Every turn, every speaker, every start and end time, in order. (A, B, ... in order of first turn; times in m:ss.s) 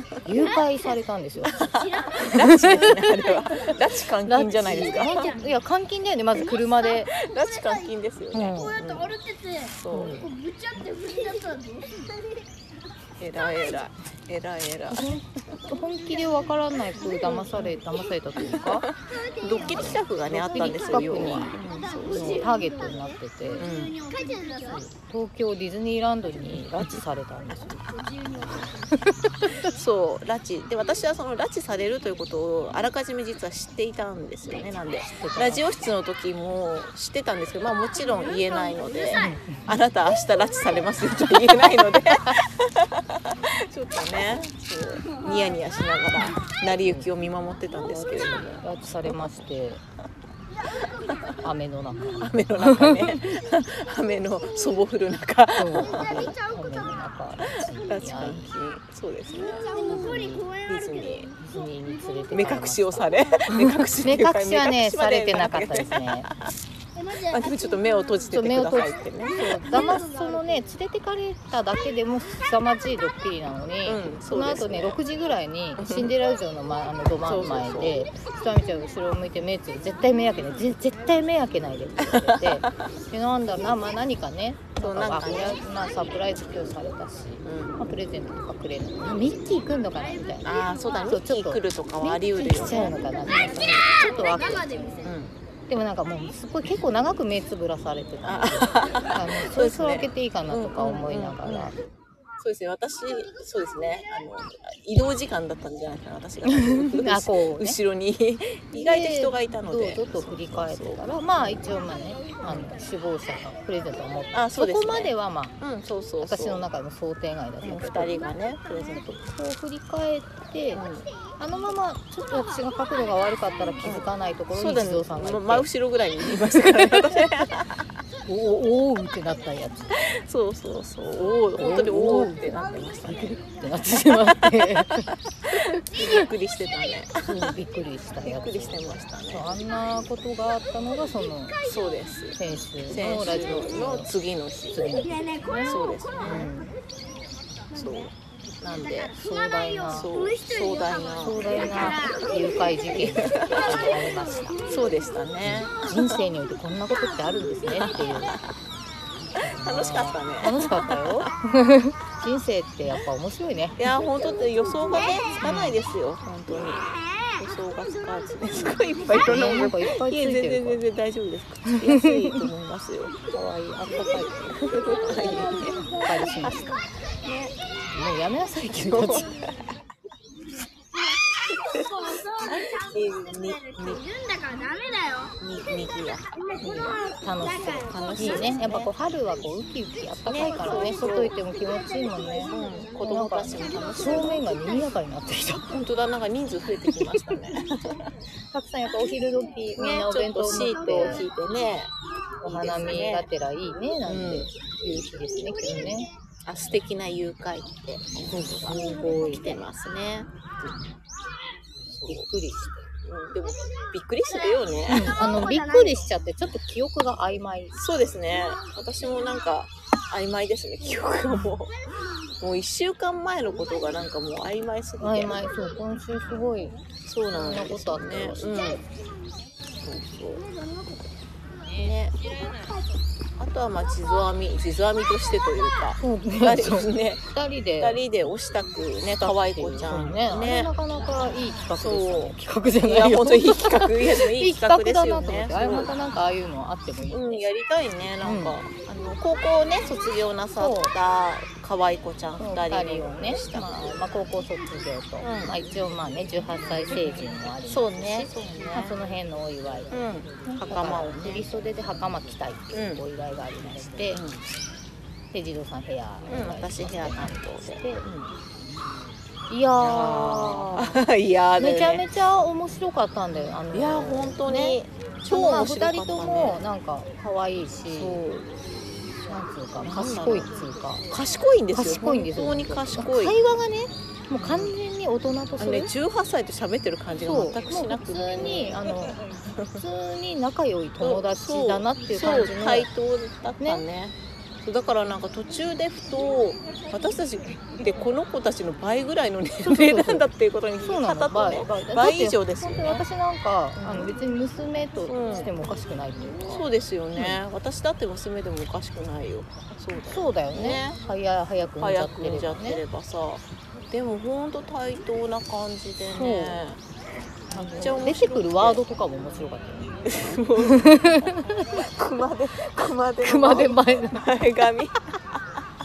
0:00.2-0:01.6 A
0:00.3-0:03.9 B
0:01.5-0:05.3 C
0:02.3-0:03.0 A
0:04.2-0:07.1 A
0:04.5-0:05.6 B
0:06.3-0:12.4 B
0:07.2-0:10.3 C
0:08.3-0:08.8 A
0:09.9-0:10.3 A
0:13.2-0:15.5 C
0:13.3-0:13.9 B
0:14.9-0:18.9 A
0:16.0-0:17.6 B
0:17.2-0:17.8 C
0:18.4-0:22.5 C
0:18.9-0:24.9 B
0:19.6-0:21.6 A
0:22.1-0:23.7 A
0:23.6-0:23.9 C
0:24.6-0:27.8 A
0:26.3-0:28.0 C
0:27.7-0:28.9 B
0:28.9-0:29.6 A
0:29.5-0:49.4 C
0:35.2-0:35.8 A
0:37.9-0:39.3 B
0:39.1-0:39.8 A
0:40.3-0:41.1 B
0:45.1-0:45.6 B
0:47.8-0:48.5 B
0:47.9-0:49.8 A
0:50.8-0:51.4 B
0:51.4-0:53.4 A
0:52.2-0:56.3 C
0:54.1-0:54.8 B
0:55.6-0:58.5 A
0:55.7-0:58.3 B
0:57.8-1:01.3 C
0:59.3-1:03.4 B
0:59.9-1:00.4 A
1:01.4-1:06.3 A
1:02.3-1:06.5 C
1:06.9-1:10.7 B
1:07.1-1:10.0 C
1:08.3-1:30.5 A
1:13.8-1:15.0 C
1:15.8-1:16.1 C
1:17.2-1:18.0 C
1:20.1-1:20.8 B
1:22.0-1:22.7 C
1:24.8-1:25.6 C
1:27.4-1:27.9 C
1:29.2-1:31.2 B
1:30.4-1:33.9 C
1:31.1-1:35.1 A
1:32.4-1:35.2 B
1:35.0-1:35.3 C
1:35.7-1:41.8 A
1:38.2-1:41.7 C
1:42.4-1:51.6 C
1:46.4-1:47.8 A
1:48.7-1:55.6 A
1:52.4-1:52.8 C
1:54.3-1:56.6 C
1:56.2-1:58.1 A
1:57.6-1:59.2 C
1:58.2-1:59.1 B
1:58.9-2:00.8 A
2:00.7-2:01.1 C
2:01.4-2:05.7 A
2:02.2-2:03.8 B
2:03.8-2:07.8 C
2:06.5-2:07.5 A
2:08.2-2:10.0 A
2:09.9-2:13.4 C
2:11.6-2:16.3 A
2:13.9-2:17.6 C
2:17.2-2:21.6 A
2:18.2-2:19.6 C
2:21.6-2:22.2 B
2:21.6-2:26.5 C
2:22.4-2:24.1 A
2:24.7-2:26.7 A
2:24.9-2:26.7 B
2:27.6-2:36.2 B
2:27.7-2:29.1 C
2:29.1-2:30.1 A
2:29.9-2:32.1 C
2:31.2-2:34.6 A
2:32.9-2:33.9 C
2:34.7-2:36.2 C
2:35.4-2:38.4 A
2:36.9-2:38.1 B
2:37.8-2:38.4 C
2:39.3-2:43.8 A
2:39.5-2:41.3 C
2:43.8-2:46.8 C
2:43.9-2:45.4 B
2:45.4-2:45.8 A
2:46.6-2:47.3 B
2:47.4-2:53.1 C
2:48.0-2:49.2 B
2:49.1-2:50.8 A
2:51.7-2:52.4 A
2:53.3-2:56.7 A
2:54.6-2:55.8 C
2:55.3-2:56.5 B
2:57.2-2:57.5 C
2:57.9-2:59.3 A
2:58.9-2:59.5 C
3:01.1-3:08.7 B
3:01.5-3:01.9 C
3:02.4-3:04.0 C
3:05.4-3:06.3 C
3:06.6-3:15.8 A
3:07.8-3:08.9 C
3:10.2-3:11.3 C
3:10.3-3:15.0 B
3:12.5-3:14.4 C
3:15.7-3:18.0 C
3:17.0-3:17.4 A
3:18.5-3:21.2 A
3:19.8-3:21.9 C
3:20.6-3:21.4 B
3:22.4-3:26.1 A
3:22.5-3:23.3 C
3:24.0-3:24.5 C
3:25.6-3:30.3 C
3:25.7-3:26.0 B
3:28.3-3:29.6 A
3:28.6-3:29.4 B
3:31.9-3:32.3 C
3:32.1-3:32.8 A
3:33.0-3:35.4 C
3:34.2-3:36.0 B
3:34.9-3:37.7 A
3:37.7-3:41.7 C
3:42.4-3:45.4 C
3:43.6-3:43.9 B
3:45.0-3:46.8 A
3:47.0-3:48.8 C
3:47.3-3:48.5 A
3:48.4-3:49.0 B
3:49.8-3:50.4 C
3:50.3-3:52.9 B
3:51.8-3:52.2 C
3:53.4-4:00.7 C
3:53.8-3:54.4 B
3:56.0-3:58.0 A
3:59.2-4:07.4 A
4:01.8-4:05.9 C
4:07.1-4:14.0 C
4:08.2-4:08.6 A
4:10.6-4:10.9 A
4:12.4-4:24.2 A
4:15.2-4:15.6 C
4:16.9-4:19.0 C
4:19.9-4:21.4 C
4:22.7-4:23.0 C
4:24.1-4:24.4 C
4:25.3-4:28.1 A
4:26.3-4:28.3 C
4:29.5-4:31.0 A
4:29.8-4:32.0 C
4:31.6-4:38.2 A
4:33.3-4:36.6 C
4:37.9-4:38.5 C
4:39.3-4:41.1 A
4:39.8-4:40.5 C
4:41.1-4:43.4 C
4:41.7-4:45.9 A
4:44.4-4:44.7 C
4:45.6-4:49.8 C
4:47.2-4:49.2 A
4:49.7-4:52.9 A
4:51.0-5:03.0 C
4:59.6-5:00.2 A
5:00.8-5:06.6 A
5:03.8-5:04.1 C
5:05.0-5:05.5 C
5:06.4-5:11.0 C
5:10.1-5:12.8 A
5:11.8-5:16.8 C
5:16.1-5:16.6 A
5:17.5-5:18.8 C
5:17.5-5:21.6 A
5:20.0-5:25.4 C
5:23.2-5:24.3 A